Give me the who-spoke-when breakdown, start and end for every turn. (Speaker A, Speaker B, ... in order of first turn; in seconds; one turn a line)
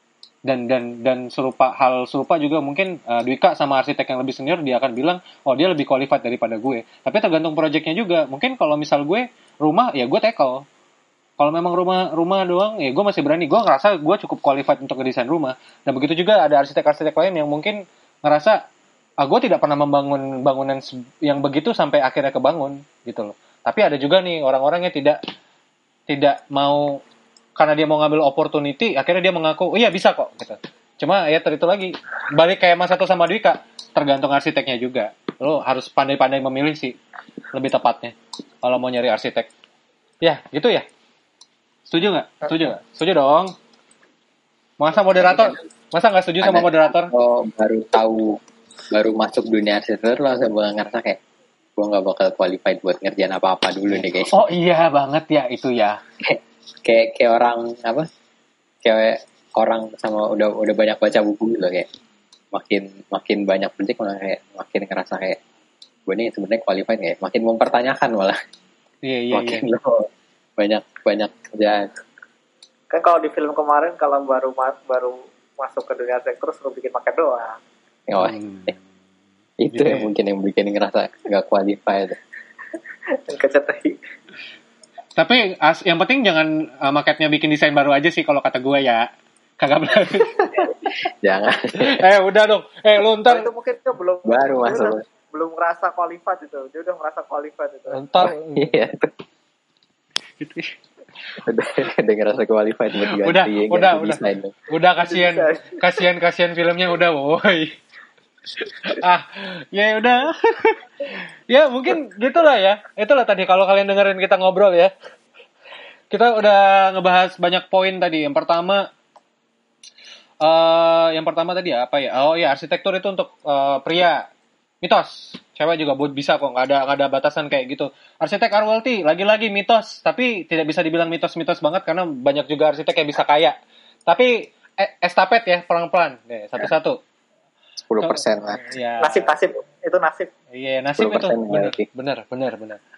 Speaker A: 0.5-10.7
Speaker A: 11.4-18.6
Speaker A: 19.2-25.2
Speaker A: 26.1-27.0
Speaker A: 27.6-37.0
Speaker A: 37.5-39.5
Speaker A: 40.2-40.9
Speaker A: 41.9-43.5
Speaker A: 44.8-47.1
Speaker B: 46.4-48.4
Speaker B: 48.9-51.2
Speaker B: 51.8-54.3
Speaker A: 53.9-56.0
Speaker B: 56.2-58.1
Speaker B: 58.8-61.9
Speaker B: 62.5-65.4
Speaker B: 66.1-68.4
Speaker A: 69.0-69.7
Speaker B: 69.3-71.9
Speaker C: 72.9-77.6
Speaker B: 78.1-78.8
Speaker A: 78.2-78.8
Speaker B: 79.6-82.2
Speaker A: 79.7-80.1
Speaker C: 83.2-84.0
Speaker A: 85.2-90.5
Speaker C: 90.4-90.7
Speaker B: 90.5-92.0
Speaker A: 91.8-93.5
Speaker C: 93.3-98.3
Speaker B: 94.3-95.0
Speaker A: 97.9-98.8
Speaker B: 98.2-99.1
Speaker A: 100.4-100.8
Speaker B: 101.4-104.6
Speaker A: 103.0-107.8
Speaker C: 105.0-105.8
Speaker A: 108.6-114.9
Speaker A: 116.1-118.9
Speaker A: 120.4-124.3
Speaker A: 124.8-133.6
Speaker A: 134.1-137.0
Speaker B: 137.9-138.6
Speaker A: 138.0-139.3
Speaker C: 139.0-140.3
Speaker A: 140.5-142.8
Speaker B: 141.0-141.9